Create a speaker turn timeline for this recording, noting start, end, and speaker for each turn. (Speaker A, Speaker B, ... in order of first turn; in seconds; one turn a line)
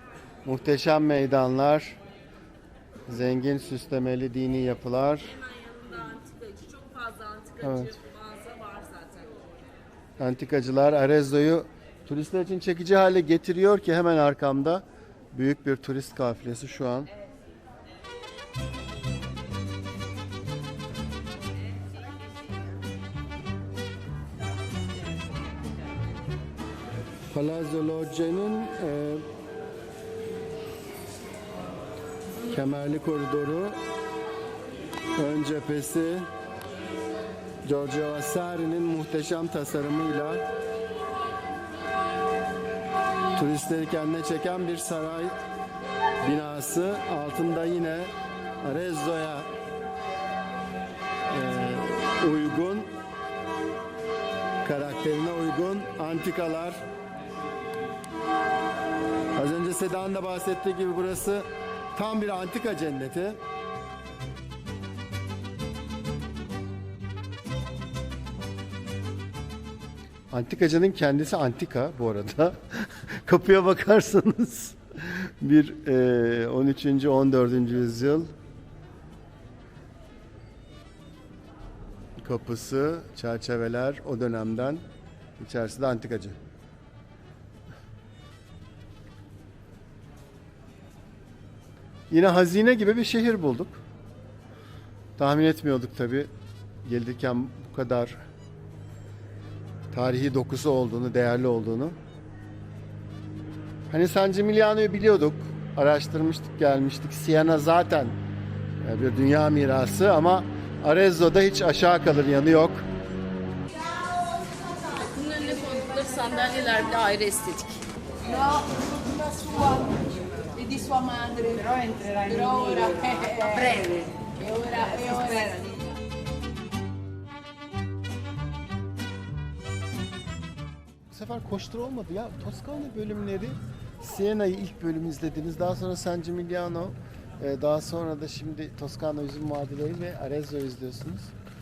Speaker A: 0.4-2.0
Speaker A: 3.1-5.3
Speaker B: 5.3-9.4
Speaker A: 7.6-8.0
Speaker A: 10.2-17.1
Speaker A: 27.3-29.2
Speaker A: 32.4-33.8
Speaker A: 35.2-36.3
Speaker A: 37.6-40.4
Speaker A: 43.3-45.4
Speaker A: 46.2-48.1
Speaker A: 48.6-49.5
Speaker A: 51.3-52.9
Speaker A: 54.6-56.8
Speaker A: 59.3-63.4
Speaker A: 70.3-78.3
Speaker A: 82.2-84.8
Speaker A: 85.4-86.3
Speaker A: 92.1-93.8
Speaker A: 95.2-96.3
Speaker A: 96.8-98.2
Speaker A: 99.9-102.0
Speaker A: 103.9-108.2
Speaker A: 108.8-112.8
Speaker B: 115.0-117.8
Speaker C: 119.1-126.0
Speaker A: 131.1-141.3